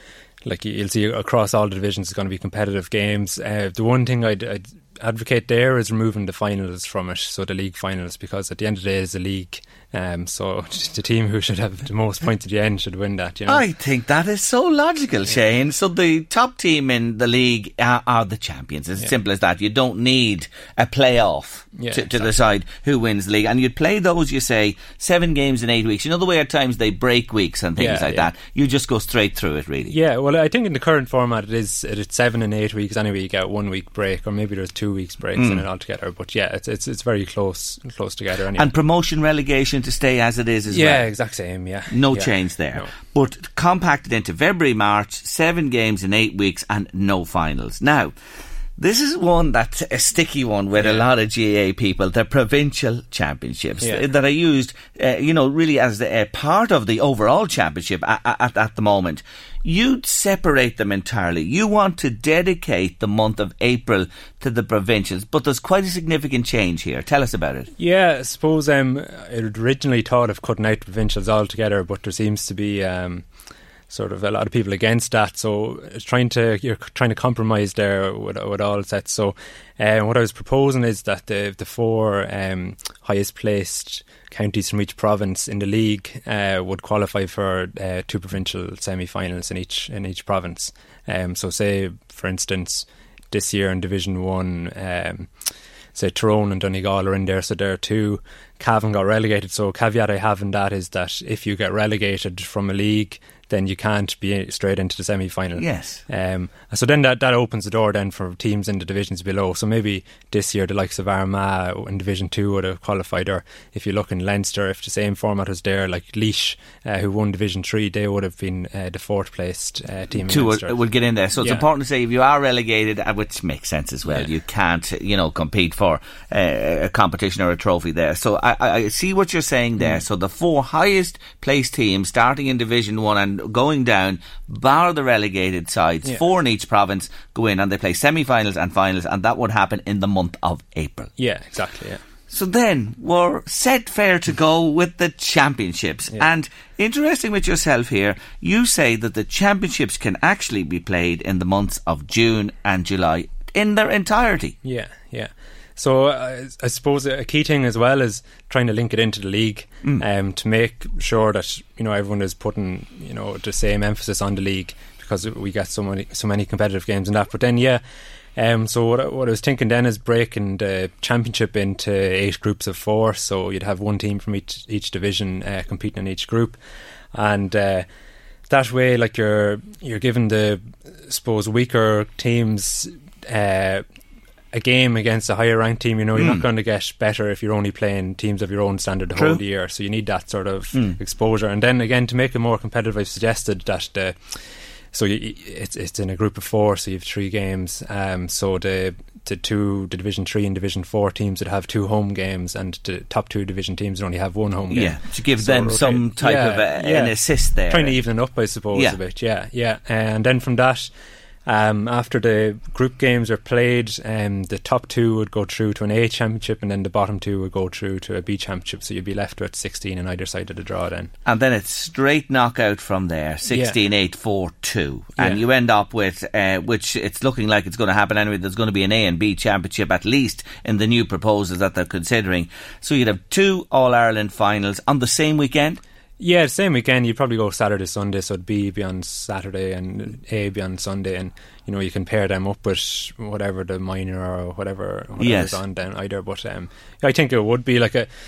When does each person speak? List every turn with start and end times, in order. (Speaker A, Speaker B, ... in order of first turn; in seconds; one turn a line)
Speaker A: 0.4-13.7
Speaker B: 13.5-29.9
Speaker A: 21.8-22.3
Speaker A: 27.8-28.3
Speaker A: 29.9-38.7
Speaker B: 35.4-35.6
Speaker B: 38.6-41.1
Speaker A: 40.7-42.9
Speaker B: 41.9-48.1
Speaker B: 48.8-67.7
Speaker A: 50.8-51.1
Speaker A: 67.8-73.3
Speaker A: 73.9-95.3
Speaker A: 95.9-120.8
Speaker B: 105.6-106.0
Speaker B: 120.3-141.1
Speaker A: 121.4-121.7
Speaker A: 141.2-142.0
Speaker B: 142.3-154.6
Speaker A: 154.6-167.8
Speaker A: 168.4-176.6
Speaker A: 177.1-177.9
Speaker A: 178.5-183.8
Speaker A: 184.5-194.4
Speaker B: 186.2-186.4
Speaker B: 189.2-189.4
Speaker A: 194.9-207.2
Speaker B: 204.7-208.0
Speaker A: 207.7-210.9
Speaker A: 211.5-221.1
Speaker B: 221.3-235.8
Speaker A: 223.5-223.8
Speaker A: 236.2-248.1
Speaker B: 245.2-245.6